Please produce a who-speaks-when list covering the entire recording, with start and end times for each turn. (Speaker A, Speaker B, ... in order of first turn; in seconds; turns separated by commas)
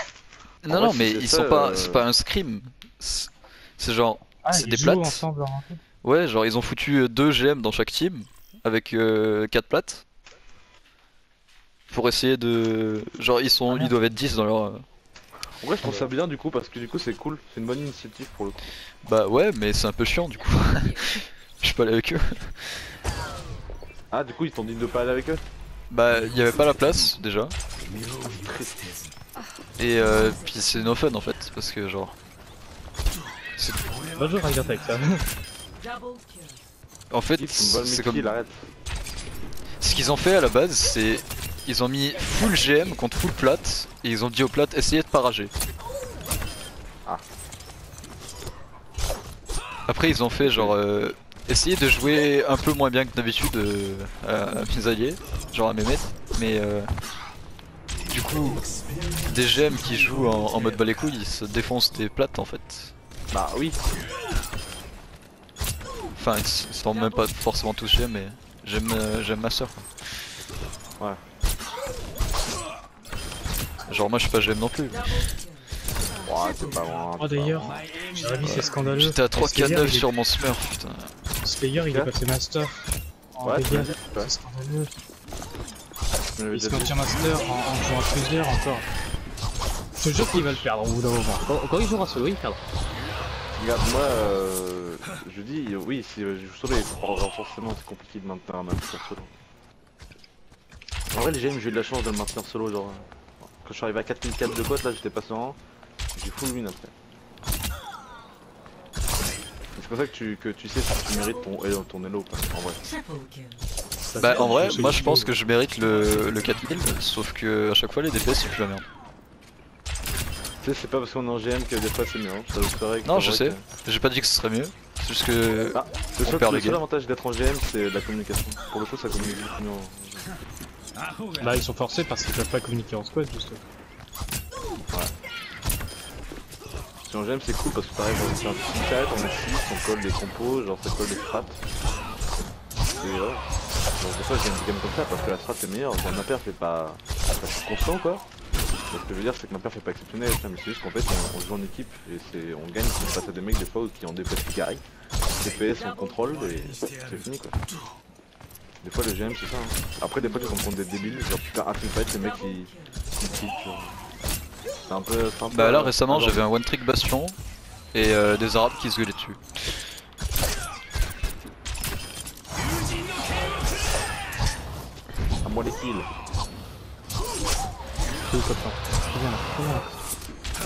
Speaker A: 0.6-5.2, Speaker B: 0.7-2.0, Speaker C: 4.4-5.8, Speaker A: 6.0-10.0, Speaker A: 11.9-14.8, Speaker B: 15.6-18.6, Speaker C: 15.8-16.1, Speaker A: 19.0-22.9, Speaker B: 24.1-25.4, Speaker A: 25.9-27.5, Speaker B: 28.2-28.9, Speaker A: 29.8-32.2, Speaker A: 33.6-33.9, Speaker C: 34.1-35.2, Speaker A: 37.1-38.3, Speaker B: 37.4-38.7, Speaker A: 39.8-45.5, Speaker A: 49.9-56.9, Speaker B: 50.4-50.8, Speaker A: 58.1-58.6, Speaker A: 59.2-62.9, Speaker B: 63.3-63.8, Speaker A: 66.1-69.9, Speaker A: 73.8-75.3, Speaker B: 76.2-77.8, Speaker C: 77.2-80.1, Speaker A: 78.4-81.1, Speaker C: 81.4-84.9, Speaker B: 83.4-84.3, Speaker B: 86.4-87.0, Speaker C: 86.5-88.8, Speaker C: 90.0-92.6, Speaker B: 93.6-99.3, Speaker B: 101.1-105.6, Speaker B: 106.1-106.9, Speaker B: 109.8-112.8, Speaker C: 114.1-115.3, Speaker A: 114.2-118.9, Speaker B: 120.6-123.6, Speaker A: 123.0-126.8, Speaker B: 125.7-130.3, Speaker C: 131.4-133.6, Speaker B: 137.0-141.6, Speaker B: 143.0-148.2, Speaker B: 148.9-154.8, Speaker B: 155.4-157.6, Speaker B: 158.8-164.0, Speaker B: 164.9-166.4, Speaker A: 165.5-167.3, Speaker A: 167.9-169.4, Speaker B: 175.4-176.1, Speaker C: 178.3-179.9